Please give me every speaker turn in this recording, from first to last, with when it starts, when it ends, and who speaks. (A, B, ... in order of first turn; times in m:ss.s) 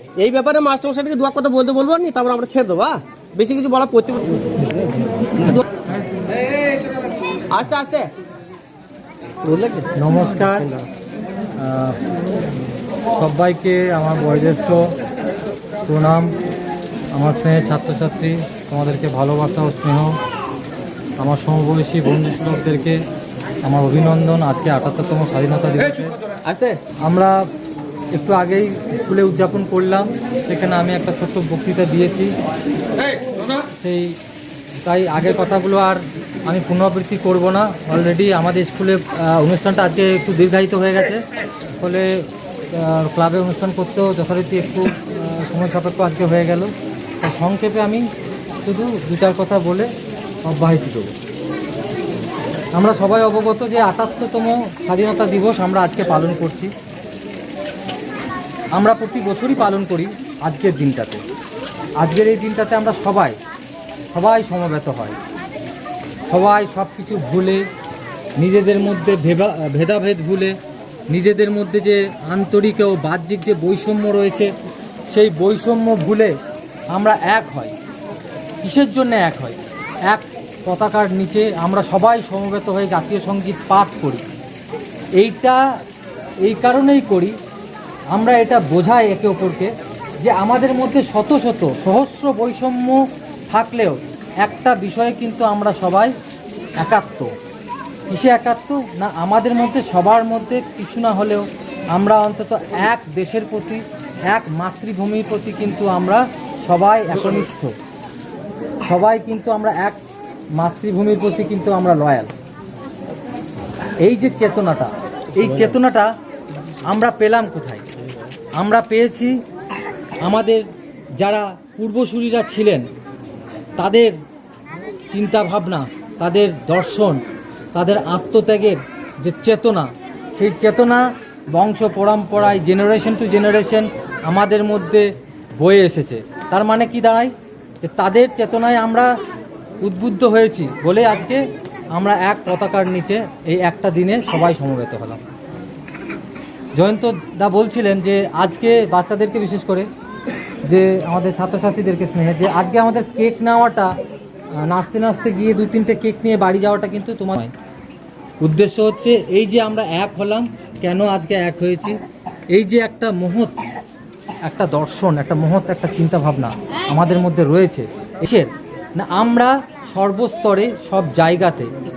0:00.2-0:05.6 A
0:06.3-0:06.8 A
0:07.5-0:08.1 A
0:09.4-0:10.9 A
0:10.0-0:10.7 B
0:11.6-0:12.0 B
0:13.2-0:14.9 B
0:15.8-0:16.3 B
0:17.1-0:20.2 B
0:21.2-0:23.0 B
0:23.6-0:26.2 B
0:26.4-0:26.8 A
0:27.0-0:27.4 B
0:28.1-0:32.3 B
0:33.0-0:33.6 A
0:33.6-0:34.2 B
0:34.8-0:41.2 B
0:41.8-0:48.1 B
0:48.6-0:49.9 B
0:50.4-0:51.1 B
0:52.8-0:56.7 B
0:58.7-1:01.2 B
1:02.0-1:03.4 B
1:04.1-1:05.2 B
1:06.3-1:07.6 B
1:08.4-1:10.6 B
1:11.1-1:14.5 B
1:15.1-1:16.3 B
1:16.9-1:17.7 B
1:18.6-1:24.2 B
1:25.2-1:25.6 B
1:26.4-1:27.4 B
1:28.1-1:36.1 B
1:36.8-1:37.3 B
1:38.1-1:47.8 B
1:48.8-1:50.0 B
1:50.6-1:52.3 B
1:54.0-1:56.1 B
1:55.4-1:55.7 A
1:56.9-1:57.8 B
1:58.6-1:59.3 B
2:00.2-2:00.6 B
2:01.2-2:02.9 B
2:03.8-2:04.1 B
2:05.1-2:07.2 B
2:07.7-2:15.1 B
2:15.6-2:19.1 B
2:19.8-2:21.4 B
2:21.9-2:25.2 B
2:26.8-2:29.9 B
2:30.6-2:33.9 B
2:34.6-2:37.5 B
2:38.4-2:42.0 B
2:42.5-2:43.6 B
2:44.4-2:51.7 B